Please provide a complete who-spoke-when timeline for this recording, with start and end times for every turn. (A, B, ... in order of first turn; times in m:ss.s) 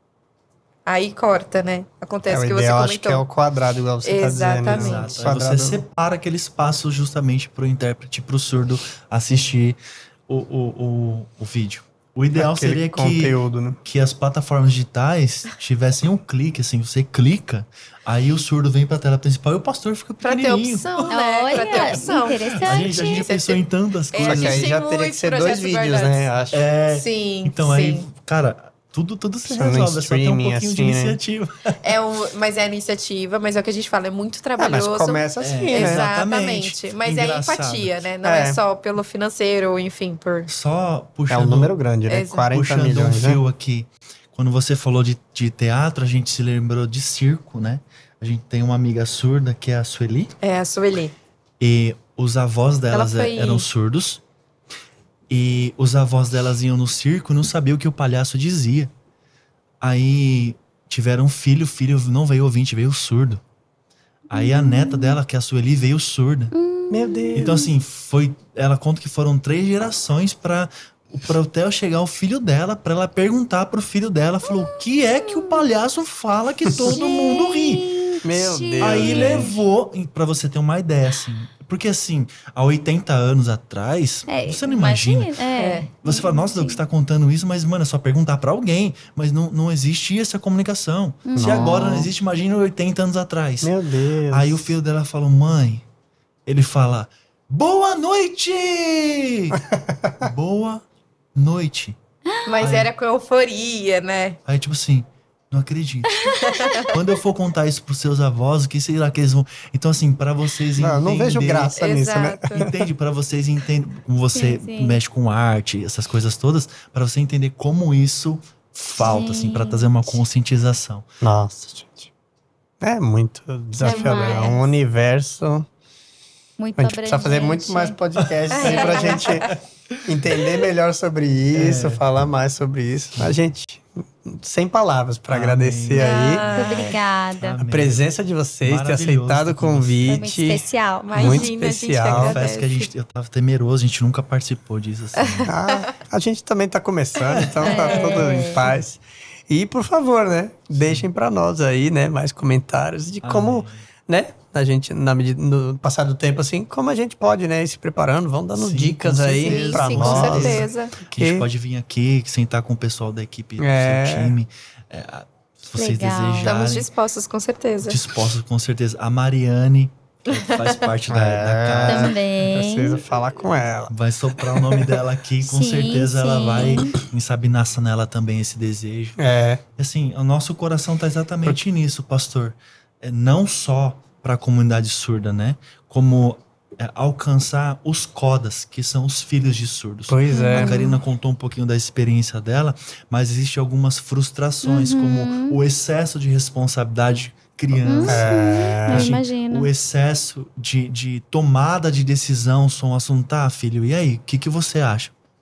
0:00.8-0:03.2 A
0:02.3-0:05.8 B
0:04.0-0:05.1 A
0:04.6-0:24.7 C
0:12.3-0:13.8 B
0:20.2-0:23.6 A
0:21.1-0:23.2 D
0:24.1-0:26.2 A
0:24.2-0:26.6 B
0:26.5-0:31.8 C
0:26.9-0:28.1 A
0:29.5-0:31.2 B
0:31.8-0:40.5 A
0:34.6-0:36.0 B
0:35.4-0:38.0 C
0:38.2-0:38.6 B
0:40.5-0:41.7 C
0:41.3-0:43.4 B
0:42.1-0:42.5 A
0:42.4-0:50.3 C
0:50.4-0:51.1 A
0:51.6-0:54.2 C
0:52.9-0:53.7 A
0:55.3-0:58.9 C
0:59.8-1:03.4 C
1:04.3-1:05.2 D
1:04.3-1:06.5 C
1:06.5-1:07.4 D
1:06.9-1:07.7 B
1:07.3-1:18.1 C
1:14.4-1:15.6 D
1:16.7-1:17.0 B
1:16.8-1:19.6 D
1:18.2-1:19.5 B
1:18.8-1:25.3 C
1:24.3-1:26.8 D
1:25.6-1:25.9 A
1:26.0-1:33.7 C
1:31.3-1:32.1 D
1:31.4-1:32.1 B
1:33.6-1:34.7 B
1:34.3-1:35.8 C
1:36.4-1:39.6 C
1:39.5-1:40.2 B
1:40.2-1:40.8 C
1:41.3-1:42.0 C
1:42.4-1:44.4 A
1:42.6-1:42.9 C
1:44.4-1:51.7 C
1:46.1-1:46.9 D
1:46.4-1:46.9 A
1:50.8-1:52.9 B
1:51.8-1:52.6 A
1:52.5-2:01.1 C
1:54.3-1:55.0 D
1:59.0-2:00.2 D
2:01.2-2:01.9 B
2:02.8-2:05.7 B
2:03.8-2:04.6 D
2:03.8-2:04.6 A
2:06.6-2:08.0 D
2:06.8-2:09.5 B
2:08.5-2:09.5 A
2:08.5-2:10.4 C
2:10.0-2:16.8 B
2:11.5-2:12.0 C
2:15.3-2:16.6 C
2:16.0-2:17.0 A
2:16.0-2:17.6 D
2:17.4-2:18.1 C
2:17.6-2:22.4 B
2:18.6-2:20.2 C
2:20.0-2:21.5 D
2:21.0-2:22.9 A
2:22.0-2:25.5 C
2:25.2-2:25.8 A
2:25.5-2:41.4 B
2:27.3-2:27.8 C
2:27.6-2:28.7 D
2:27.7-2:28.4 A
2:30.7-2:31.1 C
2:33.2-2:33.8 C
2:38.5-2:46.9 C
2:39.4-2:40.9 A
2:43.6-2:44.3 B
2:45.7-2:46.5 D
2:46.4-2:48.0 A
2:47.8-2:52.2 C
2:50.3-2:50.8 A
2:51.1-2:53.9 B
2:51.8-2:53.0 D
2:53.9-2:59.2 C
2:54.5-2:54.9 B
2:55.4-2:56.9 D
2:59.2-2:59.6 B
2:59.8-3:18.3 C
3:10.1-3:10.8 B
3:10.3-3:11.0 D
3:14.6-3:15.6 D
3:17.8-3:19.7 D
3:18.0-3:19.2 B
3:18.9-3:25.1 C